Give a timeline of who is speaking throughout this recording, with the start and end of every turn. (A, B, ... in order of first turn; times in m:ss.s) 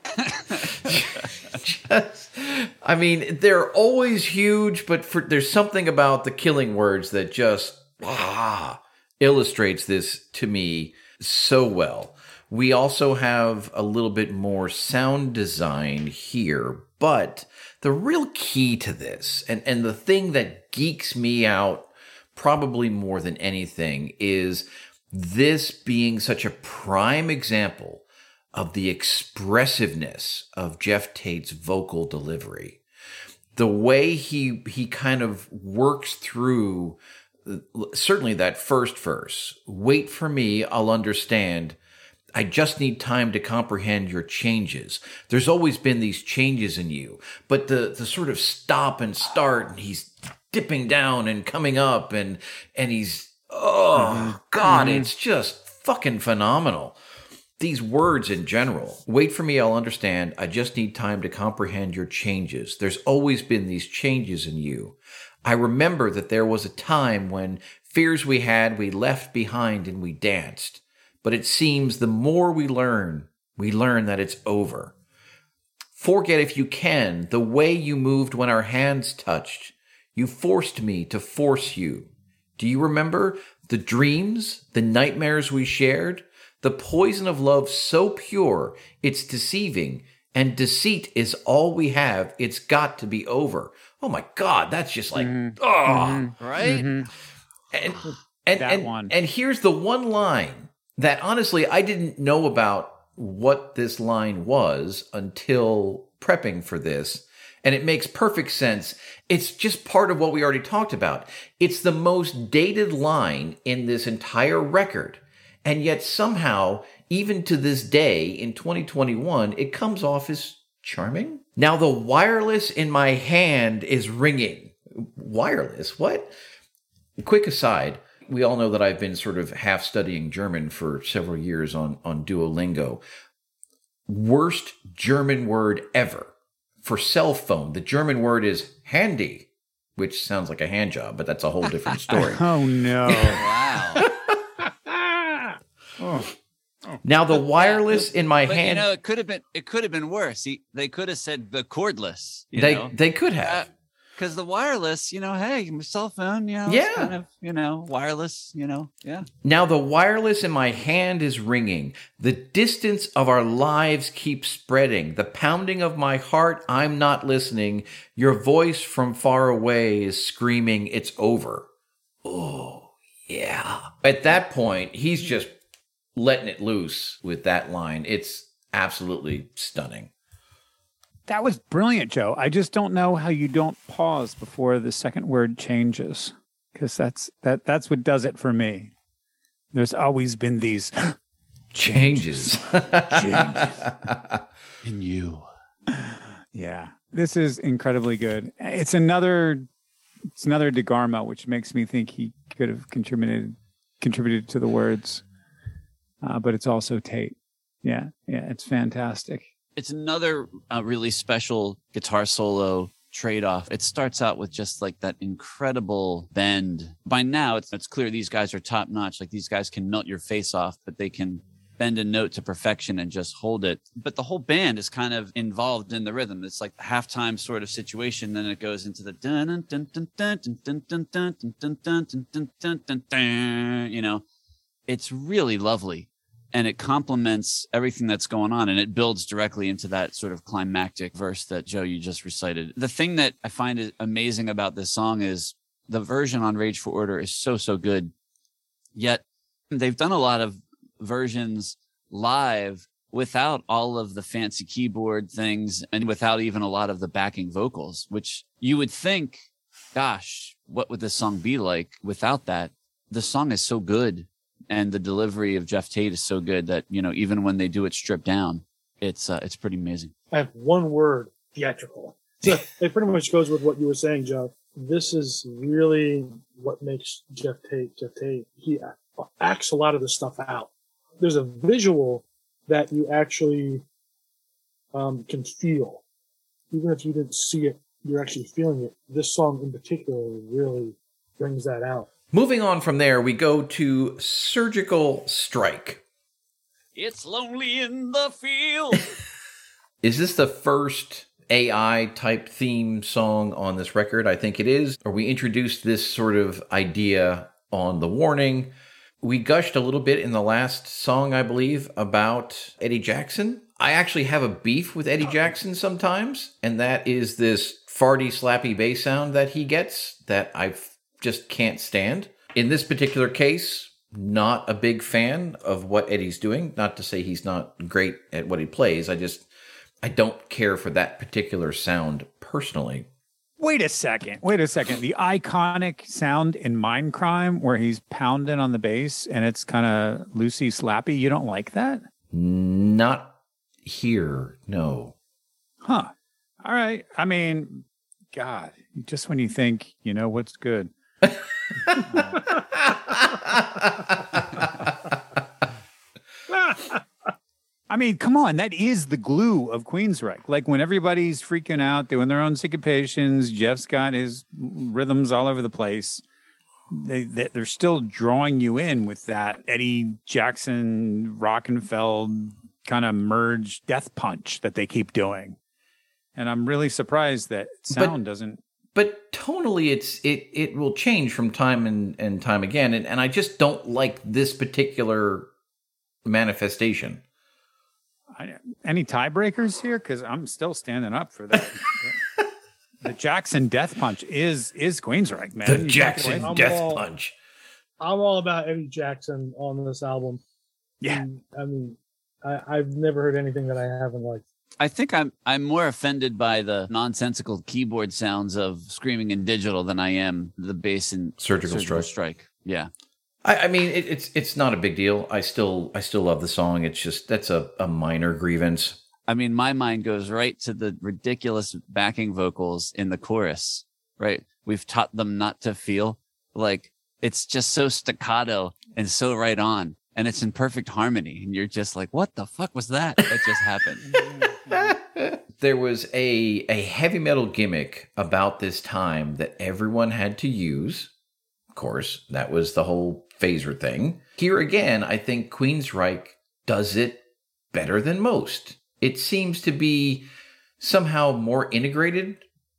0:00.2-0:00.5 A
0:00.5-0:32.8 B
0:33.6-0:41.8 B
0:42.4-0:57.0 B
0:54.0-0:55.1 C
0:57.6-1:14.9 B
1:16.0-1:36.3 B
1:35.2-1:37.1 C
1:36.4-1:37.1 A
1:37.7-2:06.3 B
1:38.6-1:39.1 C
2:07.2-2:13.0 B
2:14.1-2:22.5 B
2:22.1-2:23.5 C
2:23.1-2:24.0 A
2:24.0-2:24.4 B
2:26.0-2:26.3 C
2:27.0-2:28.9 B
2:27.5-2:39.3 A
2:32.5-2:33.7 B
2:36.7-2:37.1 B
2:39.4-2:51.7 B
2:52.2-2:55.5 B
2:56.2-3:00.1 B
3:01.3-3:08.9 C
3:09.7-3:11.2 C
3:11.7-3:14.4 B
3:12.4-3:13.8 C
3:14.8-3:15.5 A
3:15.9-3:19.7 C
3:20.4-3:25.2 C
3:26.2-3:29.5 C
3:29.8-3:54.2 A
3:54.9-4:08.1 A
4:09.0-4:30.1 A
4:30.3-4:43.8 D
4:44.9-4:46.0 D
4:46.7-4:52.1 D
4:52.3-4:56.0 B
4:57.0-4:59.1 A
5:00.0-5:08.7 B
5:09.2-5:29.5 B
5:30.0-5:33.1 B
5:33.6-5:42.0 C
5:42.3-5:45.1 B
5:45.8-5:50.9 C
5:52.1-5:52.4 C
5:52.8-5:54.7 B
5:57.9-6:06.2 C
6:06.9-6:15.6 C
6:16.4-6:18.6 C
6:17.9-6:18.2 B
6:19.0-6:25.5 B
6:26.2-6:27.2 B
6:28.4-6:32.2 C
6:33.0-6:36.6 C
6:35.6-6:37.4 B
6:36.3-6:37.0 D
6:38.0-6:40.4 D
6:41.1-6:44.4 D
6:44.8-6:52.9 A
6:51.4-6:52.1 B
6:53.4-6:59.0 B
6:59.3-7:14.2 A
7:14.6-7:21.1 B
7:21.7-7:27.2 B
7:27.7-7:30.3 B
7:30.8-7:32.4 B